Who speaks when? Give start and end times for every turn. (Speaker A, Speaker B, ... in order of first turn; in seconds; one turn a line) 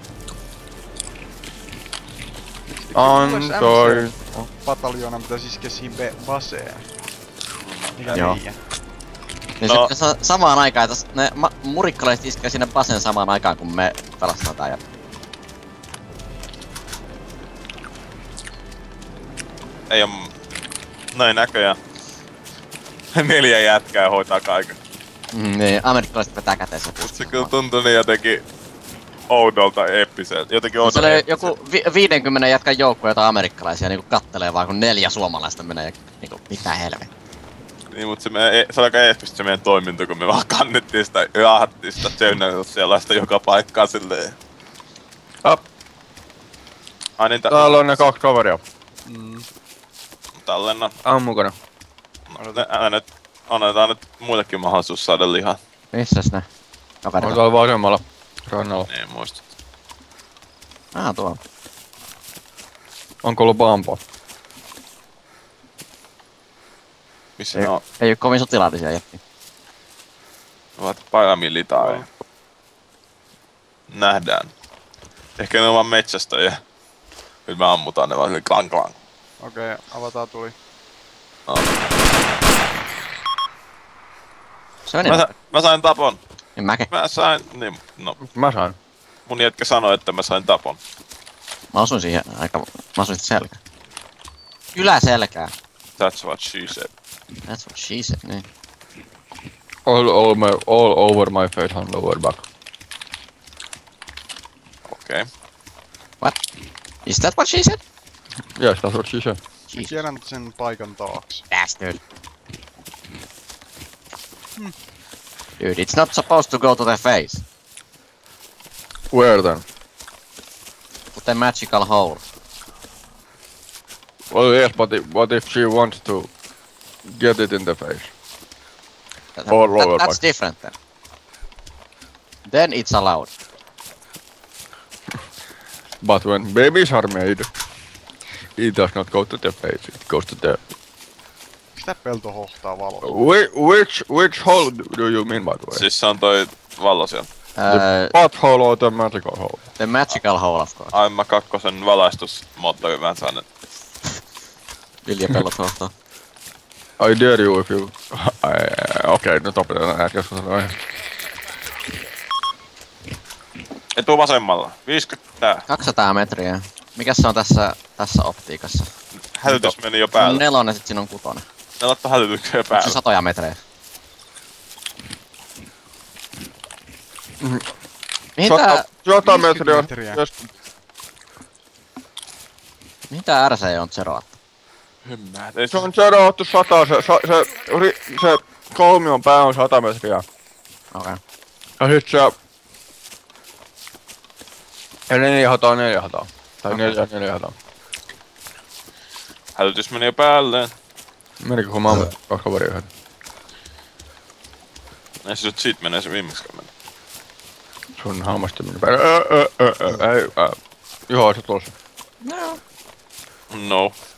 Speaker A: 2.8-6.8
Speaker B: 2.9-4.5
Speaker C: 7.6-8.3
Speaker A: 7.9-8.6
Speaker D: 8.1-8.4
Speaker D: 9.6-14.8
Speaker C: 9.6-9.9
Speaker C: 19.9-20.3
Speaker C: 21.1-21.8
Speaker C: 23.1-24.8
Speaker D: 25.3-27.5
Speaker C: 27.0-28.4
Speaker C: 29.3-31.5
Speaker D: 30.8-37.1
Speaker C: 37.9-44.4
Speaker C: 47.2-47.8
Speaker B: 47.5-48.6
Speaker A: 49.0-49.5
Speaker C: 50.3-50.9
Speaker B: 51.0-51.5
Speaker C: 52.3-55.6
Speaker A: 52.3-52.6
Speaker D: 55.9-56.5
Speaker D: 57.0-57.4
Speaker B: 57.2-58.9
Speaker C: 58.9-59.4
Speaker D: 60.9-61.4
Speaker B: 63.2-64.0
Speaker C: 67.4-67.8
Speaker D: 67.5-69.2
Speaker C: 70.8-72.1
Speaker A: 71.8-72.0
Speaker C: 73.9-74.5
Speaker C: 75.4-76.6
Speaker C: 77.5-79.0
Speaker A: 79.4-80.5
Speaker D: 84.9-85.2
Speaker C: 85.0-86.2
Speaker D: 86.6-86.9
Speaker C: 86.9-88.2
Speaker B: 88.2-88.8
Speaker C: 89.2-90.8
Speaker D: 91.7-93.6
Speaker D: 94.7-95.5
Speaker C: 96.0-96.9
Speaker D: 97.5-98.4
Speaker B: 99.8-102.4
Speaker C: 104.9-105.2
Speaker D: 107.0-107.8
Speaker B: 108.5-109.4
Speaker D: 109.7-110.0
Speaker A: 109.7-111.4
Speaker D: 111.5-112.0
Speaker D: 115.6-117.4
Speaker B: 119.1-119.6
Speaker D: 121.1-122.2
Speaker B: 124.3-126.3
Speaker B: 127.0-128.1
Speaker D: 129.3-130.7
Speaker B: 129.5-130.2
Speaker D: 132.4-133.3
Speaker B: 136.0-137.5
Speaker B: 138.6-140.6
Speaker A: 141.7-143.2
Speaker B: 143.0-145.8
Speaker C: 145.7-147.3
Speaker D: 147.6-148.1
Speaker B: 147.7-149.7
Speaker D: 149.8-150.9
Speaker C: 150.9-153.4
Speaker D: 155.0-155.9
Speaker B: 157.0-160.8
Speaker C: 163.9-165.7
Speaker D: 165.7-168.9
Speaker C: 169.2-170.4
Speaker D: 169.6-171.4
Speaker C: 171.8-173.0
Speaker D: 172.7-173.6
Speaker B: 177.4-177.7
Speaker D: 178.4-178.9
Speaker B: 178.4-180.4
Speaker A: 179.2-180.2
Speaker D: 183.1-184.3
Speaker C: 185.0-185.9
Speaker B: 185.7-190.2
Speaker D: 190.9-191.2
Speaker B: 191.8-192.3
Speaker B: 195.1-197.5
Speaker C: 199.5-200.7
Speaker B: 201.4-202.9
Speaker C: 205.2-206.7
Speaker B: 208.0-210.6
Speaker B: 211.1-211.7
Speaker D: 212.2-212.6
Speaker C: 213.5-213.9